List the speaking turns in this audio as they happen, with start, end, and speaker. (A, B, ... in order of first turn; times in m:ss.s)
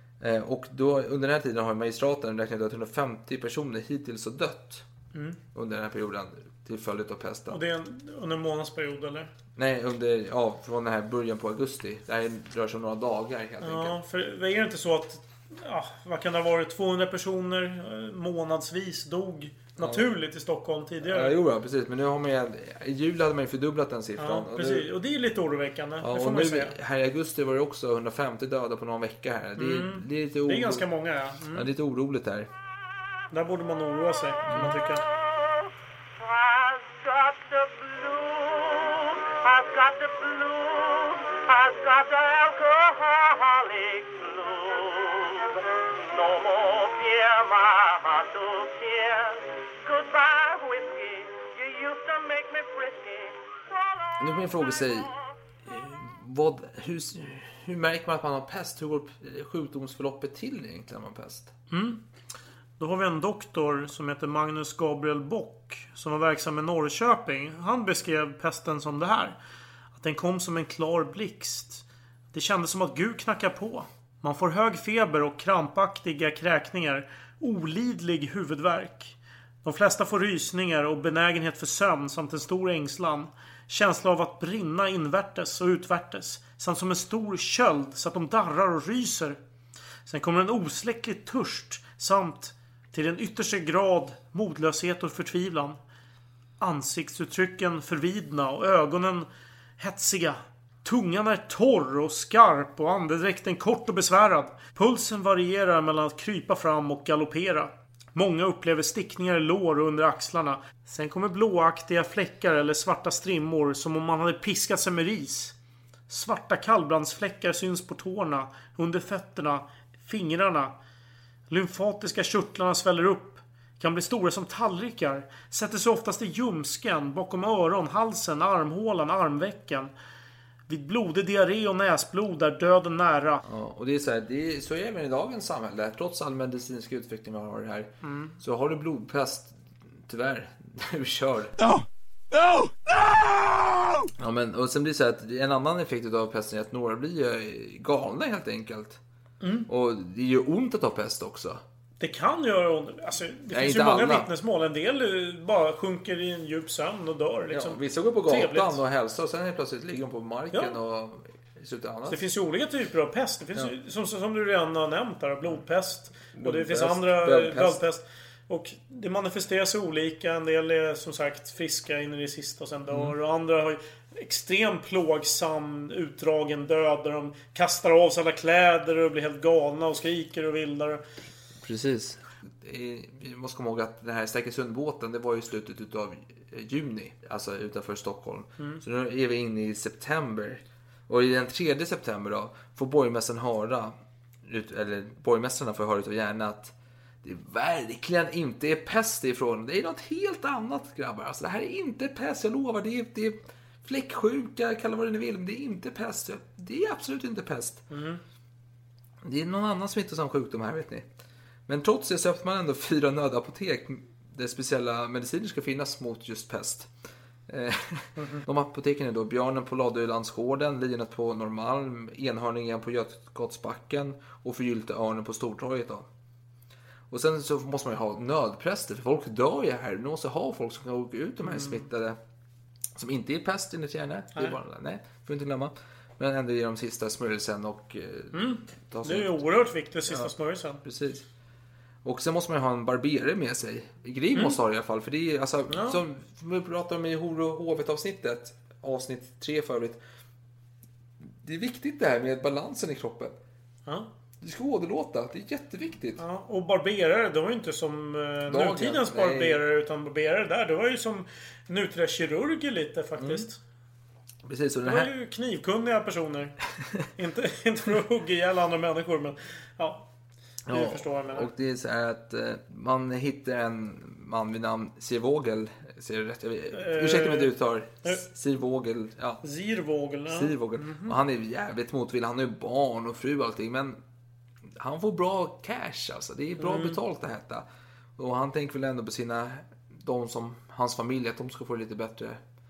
0:00.2-0:04.9 A
0:05.1-0:05.4 B
0:05.5-0:07.6 A
0:07.5-0:09.3 B
0:09.6-0:14.0 A
0:13.6-0:21.3 B
0:19.8-0:20.1 A
0:21.0-0:24.9 A
0:24.2-0:26.8 B
0:26.0-0:30.9 A
0:29.6-0:31.7 B
0:31.5-0:32.5 A
0:33.3-0:35.0 B
0:34.5-0:34.8 A
0:36.2-0:53.5 C
0:54.2-0:55.1 A
0:55.6-1:01.5 A
1:01.7-1:02.0 B
1:02.8-1:09.4 B
1:10.0-1:29.4 B
1:30.1-1:35.8 B
1:36.6-1:39.3 B
1:39.8-1:55.6 B
1:56.1-2:00.7 B
2:01.5-2:09.9 B
2:10.7-2:13.5 B
2:13.5-2:19.5 A
2:18.0-2:18.4 B
2:20.1-2:21.7 A
2:24.0-2:29.0 A
2:29.4-2:29.7 B
2:29.7-2:31.6 A
2:32.0-2:38.8 B
2:33.5-2:34.3 A
2:37.5-2:42.2 A
2:40.5-2:40.8 B
2:42.1-3:01.0 B
2:46.4-2:47.8 A
2:52.9-2:53.1 A
3:01.6-3:27.8 A
3:27.9-3:28.2 B
3:29.2-3:31.1 A
3:31.7-3:36.9 A
3:37.5-3:46.1 A
3:38.2-3:38.4 B
3:47.1-3:52.2 A
3:51.4-3:51.9 B
3:53.0-3:59.4 A
3:58.3-4:00.8 B
4:00.8-4:01.3 A
4:02.0-4:10.0 A
4:05.7-4:06.0 B
4:11.4-4:13.4 A
4:14.4-4:16.2 A
4:16.2-4:23.6 B
4:18.5-4:19.6 A
4:23.2-4:23.5 A
4:24.4-4:25.1 A
4:24.8-4:26.6 B
4:27.1-4:30.1 B
4:30.7-4:31.5 B
4:30.7-4:39.4 A
4:36.7-4:37.5 B
4:39.4-4:41.2 B
4:40.3-4:44.0 A
4:44.8-4:47.6 A
4:46.6-4:47.0 B
4:48.2-4:52.4 A